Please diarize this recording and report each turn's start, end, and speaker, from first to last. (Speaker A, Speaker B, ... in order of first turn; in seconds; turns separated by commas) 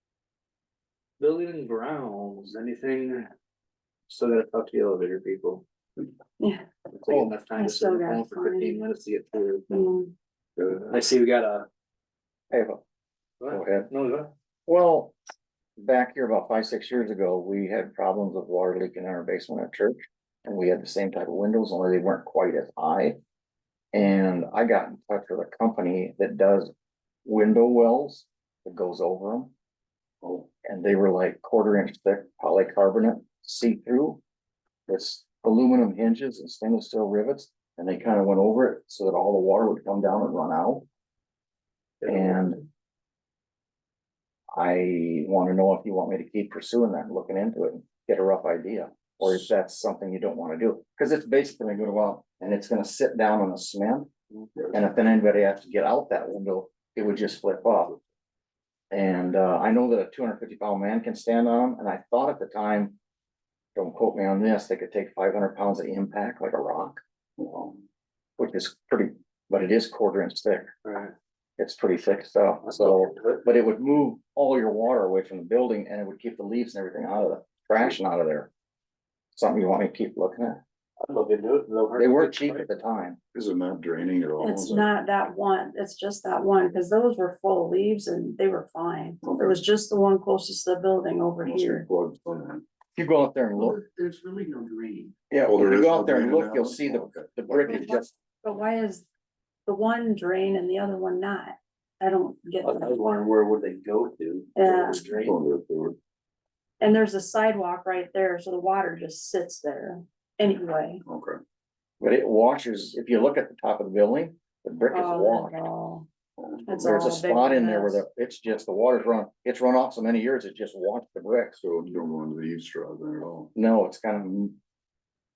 Speaker A: 1.2-3.3, Speaker A: 4.1-5.6, Speaker B: 6.4-6.7, Speaker A: 7.0-9.9, Speaker C: 7.1-7.3, Speaker B: 7.5-8.9, Speaker B: 9.7-10.1, Speaker A: 10.7-11.7, Speaker C: 12.5-12.8, Speaker A: 13.4-14.3, Speaker C: 13.5-13.9, Speaker C: 14.7-15.2, Speaker C: 15.8-23.2, Speaker C: 23.9-26.7, Speaker C: 27.3-29.5, Speaker C: 30.6-34.2, Speaker C: 34.9-40.9, Speaker A: 42.0-42.4, Speaker C: 42.1-42.6, Speaker C: 44.6-54.1, Speaker C: 54.7-58.0, Speaker C: 58.9-63.0, Speaker C: 63.8-67.0, Speaker D: 67.4-67.8, Speaker C: 68.4-70.7, Speaker A: 70.8-71.1, Speaker C: 71.6-78.5, Speaker A: 72.6-73.5, Speaker C: 79.4-80.6, Speaker A: 81.0-82.7, Speaker C: 82.0-83.2, Speaker D: 83.3-84.9, Speaker B: 84.4-91.9, Speaker D: 89.2-89.6, Speaker D: 91.4-92.6, Speaker C: 93.0-93.8, Speaker A: 93.8-95.1, Speaker C: 95.3-98.1, Speaker D: 95.5-97.8, Speaker B: 97.7-99.0, Speaker B: 99.7-103.0, Speaker A: 102.6-105.4, Speaker B: 104.6-105.0, Speaker D: 105.1-106.0, Speaker B: 106.8-111.0, Speaker D: 111.1-111.4, Speaker C: 112.0-115.6, Speaker B: 114.9-116.1, Speaker D: 116.4-116.8, Speaker B: 116.7-118.0, Speaker C: 116.8-121.6, Speaker D: 121.6-123.5, Speaker C: 123.5-124.6